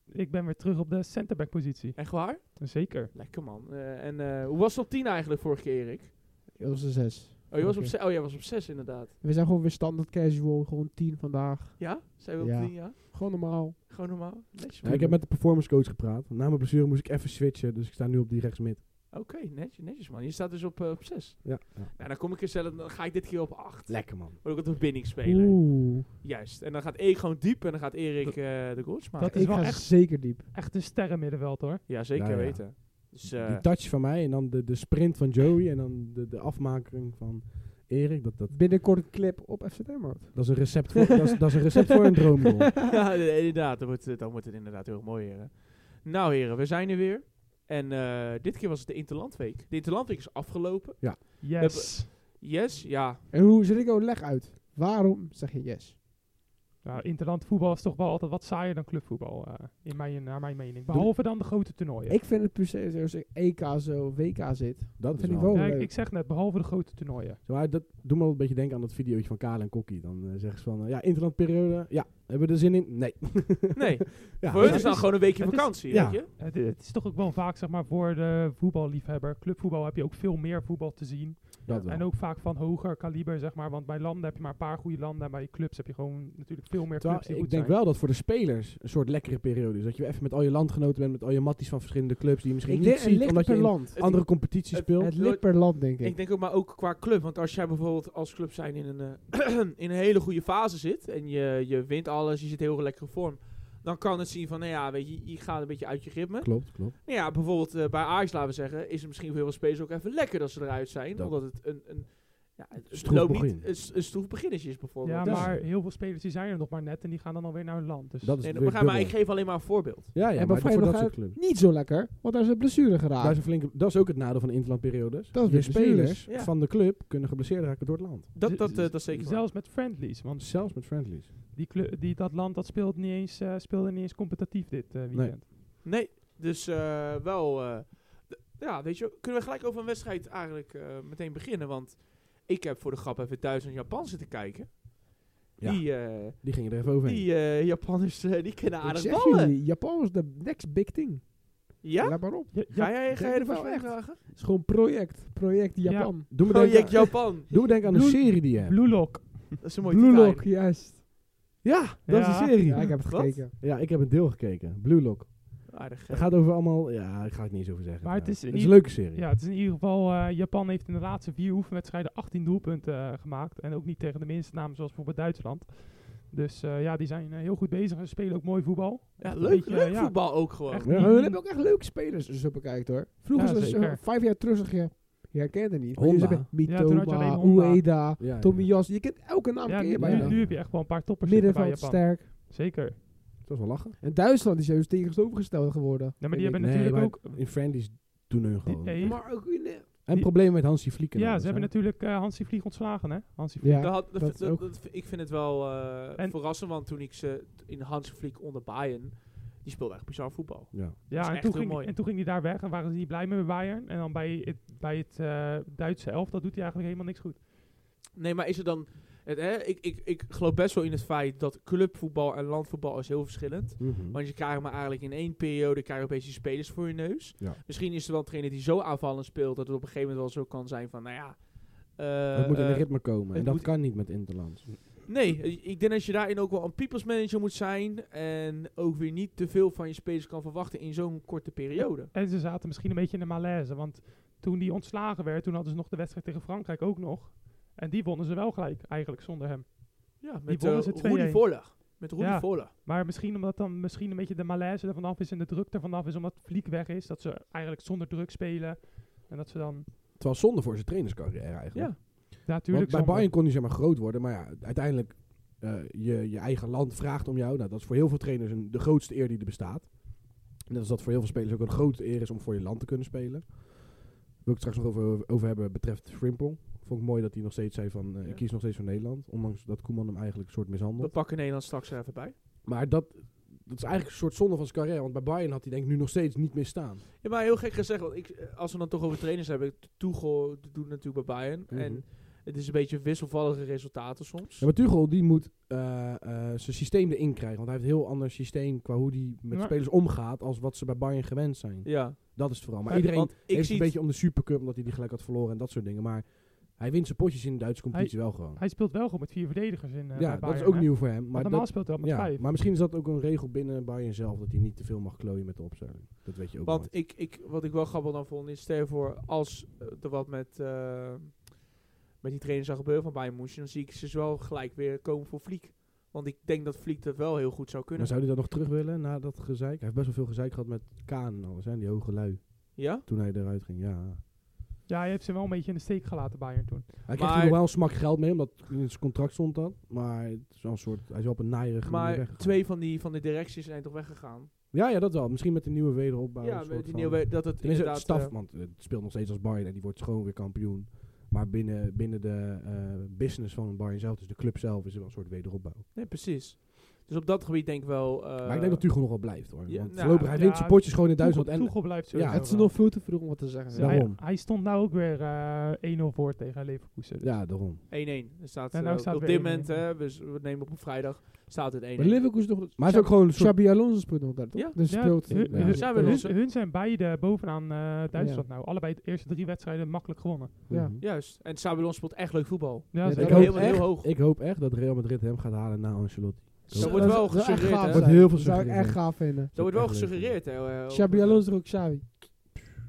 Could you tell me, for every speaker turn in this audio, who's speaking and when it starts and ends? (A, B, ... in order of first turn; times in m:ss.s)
0:00.1-0:03.1 A
0:02.0-0:06.2 B
0:06.5-0:07.9 C
0:07.5-0:09.2 B
0:09.2-0:13.8 C
0:11.8-0:15.1 B
0:14.8-0:15.2 C
0:14.8-0:18.8 D
0:19.1-0:29.4 B
0:21.4-0:21.9 D
0:23.9-0:24.4 D
0:25.2-0:26.1 C
0:29.2-0:30.5 C
0:29.2-0:31.9 A
0:31.9-0:33.7 B
0:32.1-0:38.6 D
0:38.5-0:41.0 C
0:40.3-0:42.7 D
0:42.9-0:53.3 B
0:51.4-0:52.1 A
0:53.3-0:56.0 C
0:56.8-1:02.2 A
1:02.1-1:05.9 C
1:05.0-1:05.8 D
1:05.5-1:07.4 A
1:07.4-1:16.2 D
1:13.8-1:16.3 B
1:14.6-1:27.8 A
1:21.7-1:22.1 D
1:27.0-1:35.1 D
1:32.7-1:34.2 C
1:33.9-1:55.6 B
1:35.0-1:36.2 C
1:46.4-1:47.0 D
1:52.9-1:53.7 D
1:55.0-1:58.4 A
1:55.2-1:55.6 D
1:58.2-2:01.4 D
1:58.4-2:00.2 B
2:00.3-2:03.4 C
2:03.2-2:09.4 D
2:05.3-2:06.3 C
2:06.3-2:06.5 B
2:08.3-2:09.4 B
2:08.4-2:11.0 A
2:10.4-2:11.3 D
2:11.5-2:15.5 A
2:15.1-2:15.4 D
2:15.8-2:29.5 B
2:25.6-2:27.3 D
2:28.8-2:37.6 C
2:31.8-2:34.2 B
2:32.5-2:32.9 A
2:35.8-2:36.1 A
2:36.3-2:39.0 D
2:36.4-2:37.5 B
2:37.8-2:39.6 A
2:39.6-2:40.4 B
2:39.8-2:41.0 C
2:41.6-2:43.0 D
2:42.1-2:42.9 A
2:42.7-2:43.5 C
2:42.8-2:43.4 B
2:43.6-2:49.2 D
2:45.7-2:46.3 B
2:48.0-3:01.4 A
2:59.2-3:00.8 B
3:00.8-3:01.1 D
3:00.9-3:12.3 C
3:03.3-3:04.0 A
3:05.9-3:06.5 D
3:06.6-3:07.9 A
3:08.2-3:08.7 D
3:09.6-3:13.0 A
3:10.0-3:10.6 D
3:13.4-3:14.0 D
3:14.0-3:16.5 C
3:16.2-3:17.5 A
3:16.3-3:19.2 D
3:18.6-3:24.0 A
3:19.0-3:19.9 C
3:20.0-3:21.7 D
3:23.6-3:24.7 C
3:23.8-3:31.9 B
3:30.7-3:31.0 D
3:31.1-3:37.4 A
3:38.2-3:54.2 B
3:43.8-3:44.2 D
3:52.3-3:54.8 D
3:55.0-4:02.1 B
4:02.0-4:19.9 A
4:10.2-4:12.7 B
4:20.2-4:41.2 D
4:21.7-4:22.0 B
4:22.4-4:23.3 A
4:38.2-4:38.5 B
4:41.0-4:42.4 B
4:42.6-4:47.0 D
4:47.2-4:54.7 B
4:51.7-4:52.0 D
4:54.6-5:08.6 D
4:59.5-4:59.8 A
5:01.8-5:04.0 B
5:07.9-5:12.5 A
5:10.2-5:16.9 D
5:16.6-5:21.7 B
5:22.2-5:28.2 B
5:28.0-5:34.2 D
5:32.8-5:33.0 B
5:34.9-5:36.9 A
5:37.1-5:42.6 D
5:37.2-5:37.6 B
5:41.8-5:44.5 B
5:44.7-5:55.9 D
5:46.4-5:48.3 B
5:55.9-6:00.5 B
5:58.4-6:02.7 D
6:00.3-6:02.8 A
6:02.2-6:04.0 C
6:03.7-6:07.5 A
6:03.7-6:04.2 D
6:07.2-6:07.8 D
6:07.9-6:12.2 B
6:08.7-6:09.8 A
6:12.0-6:16.3 C
6:12.7-6:13.6 D
6:14.5-6:14.8 B
6:14.9-6:20.7 A
6:15.4-6:16.4 B
6:15.5-6:15.8 D
6:18.1-6:18.5 C
6:20.7-6:21.1 D
6:20.7-6:21.0 C
6:21.0-6:24.1 B
6:22.9-6:23.6 A
6:23.0-6:23.9 C
6:23.1-6:30.5 D
6:26.7-6:28.2 B
6:26.7-6:29.5 C
6:29.5-6:31.5 B
6:30.9-6:32.1 C